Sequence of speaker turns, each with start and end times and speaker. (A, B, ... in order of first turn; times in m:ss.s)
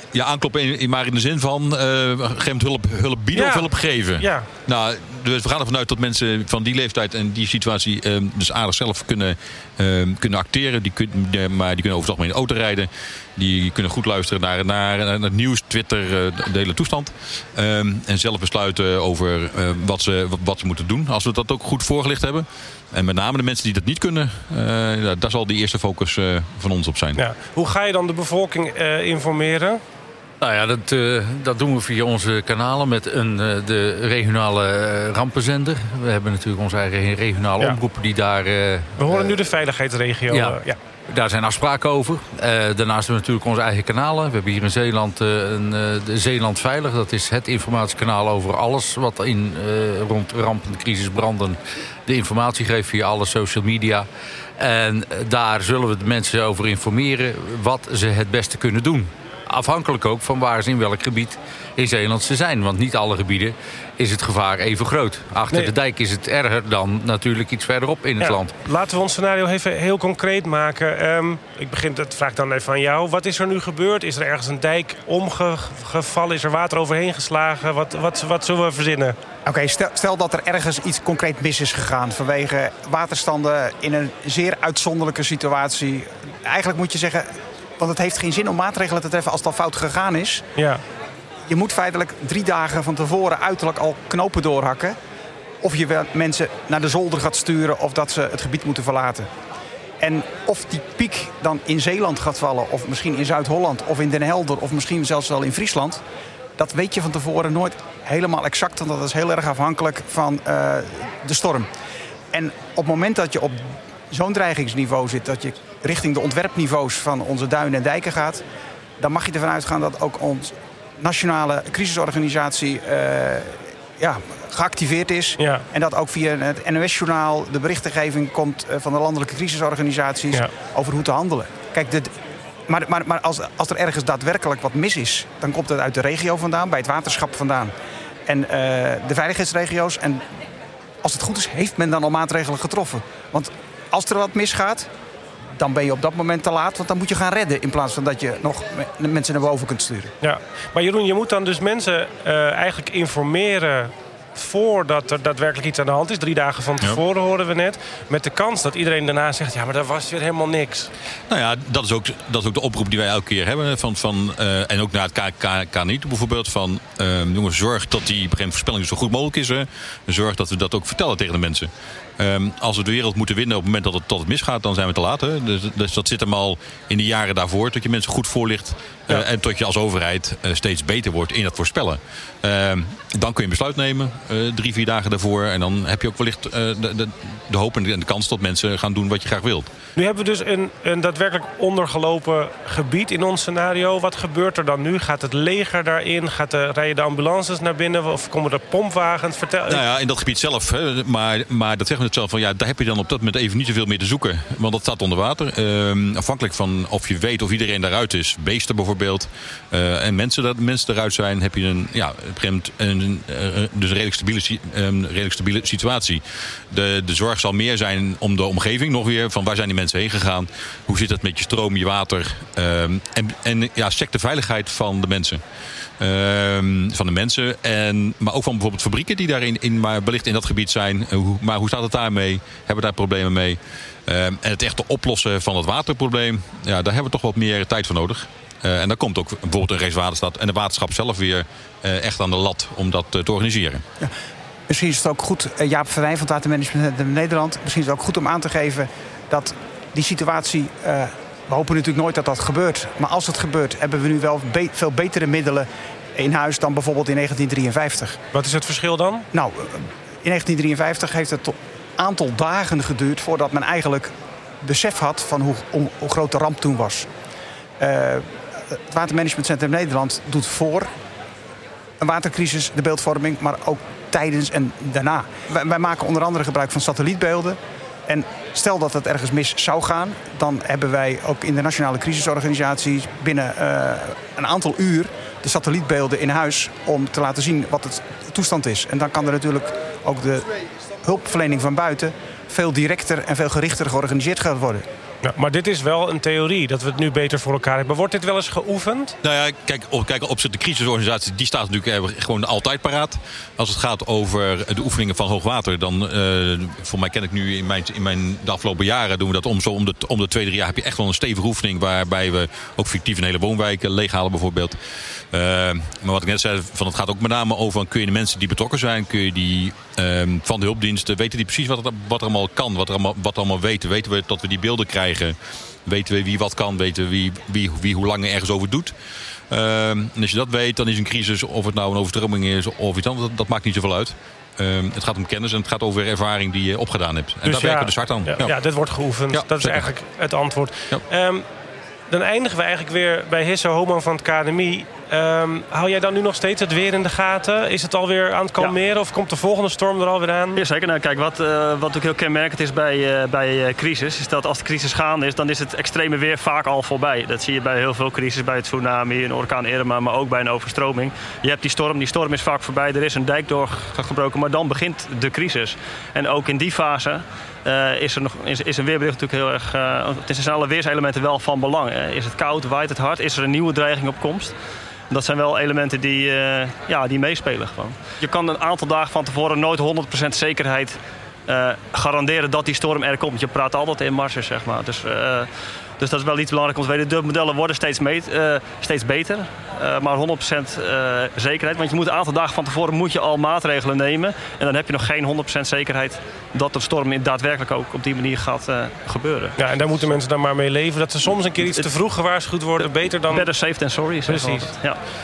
0:00.1-0:27.2 A
0:03.4-0:04.5 B
0:27.2-0:29.8 B
0:30.4-0:39.2 C
0:39.0-0:40.8 B
0:40.3-0:54.1 C
0:54.6-1:08.5 C
1:08.2-1:19.2 B
1:19.4-1:30.4 D
1:30.6-1:30.8 B
1:31.5-1:35.0 D
1:35.6-1:39.3 D
1:40.0-1:46.0 D
1:46.6-1:51.7 D
1:52.3-1:58.4 D
1:59.0-2:12.1 D
2:05.4-2:05.6 B
2:12.7-2:17.7 D
2:18.3-2:20.2 D
2:21.0-2:24.9 D
2:25.6-2:30.1 D
2:30.2-2:40.9 B
2:41.3-3:09.7 A
3:10.0-3:19.8 B
3:19.7-3:45.4 A
3:46.0-4:03.8 A
4:04.7-4:18.2 D
4:18.3-4:19.3 B
4:19.3-4:27.1 D
4:27.8-4:30.9 D
4:32.0-4:50.5 D
4:51.0-4:54.8 D
4:55.2-4:59.2 B
4:59.2-5:14.8 A
5:15.3-5:28.9 A
5:29.5-5:38.5 A
5:37.4-5:41.5 B
5:39.3-5:39.9 A
5:42.1-5:50.6 B
5:50.6-6:14.6 E
6:15.1-6:39.6 E
6:39.6-6:43.5 B
6:42.8-6:45.0 E
6:44.3-6:44.7 B